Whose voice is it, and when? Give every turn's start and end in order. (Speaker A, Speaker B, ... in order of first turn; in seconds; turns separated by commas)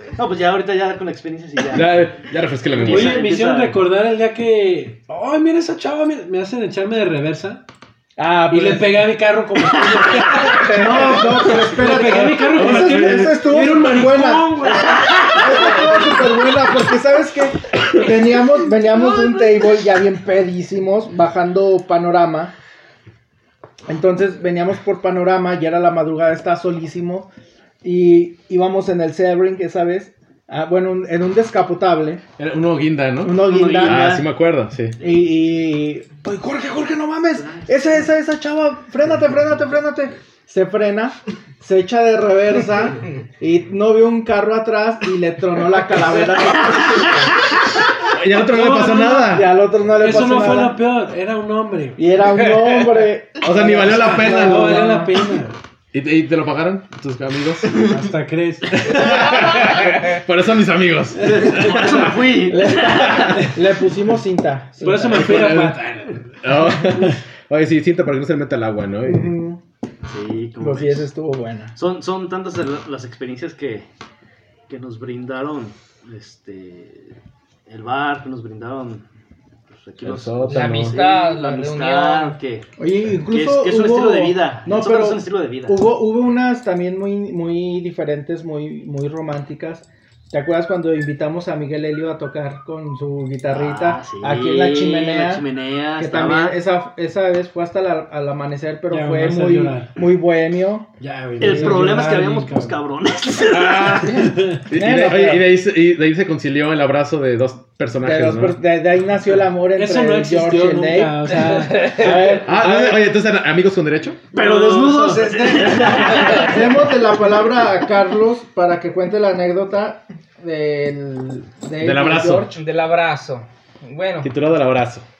Speaker A: 0.2-2.1, Speaker B: 1.7-3.2, Speaker A: 2.8-3.8, Speaker C: 2.8-7.6, Speaker D: 8.2-9.1, Speaker C: 8.5-16.0, Speaker D: 10.6-14.6, Speaker B: 11.8-13.8, Speaker A: 14.7-15.7, Speaker D: 15.3-22.5, Speaker D: 23.9-27.3, Speaker D: 27.8-32.2, Speaker B: 32.4-35.0, Speaker D: 33.2-34.2, Speaker A: 33.4-34.3, Speaker D: 35.0-47.3, Speaker A: 37.4-38.0, Speaker B: 48.1-49.5, Speaker D: 48.6-50.8, Speaker C: 50.0-52.0, Speaker D: 52.0-55.3, Speaker B: 53.4-54.9, Speaker C: 54.2-55.5, Speaker B: 55.9-57.8, Speaker C: 57.8-59.1, Speaker B: 58.8-62.3, Speaker A: 61.2-63.5, Speaker D: 62.5-65.6, Speaker C: 64.8-66.3, Speaker B: 65.1-65.8, Speaker B: 66.4-69.3, Speaker D: 69.0-69.6, Speaker A: 70.1-71.1, Speaker D: 70.6-71.7, Speaker A: 71.7-73.9, Speaker A: 74.7-77.2, Speaker A: 77.7-79.0, Speaker A: 79.7-82.7, Speaker B: 80.0-81.0, Speaker E: 80.5-82.4, Speaker D: 82.8-95.5, Speaker A: 83.2-85.8, Speaker A: 93.5-96.6, Speaker D: 96.0-102.2, Speaker C: 98.9-100.0, Speaker C: 101.0-102.7, Speaker A: 101.4-104.2, Speaker B: 103.5-108.6, Speaker C: 104.3-104.6, Speaker D: 104.7-105.5, Speaker D: 108.0-113.1, Speaker C: 109.7-112.4, Speaker E: 111.5-112.1, Speaker B: 112.4-114.2, Speaker C: 114.3-115.2, Speaker A: 114.3-116.6, Speaker D: 114.9-122.6, Speaker B: 121.8-122.5, Speaker E: 122.5-124.3, Speaker B: 124.2-125.1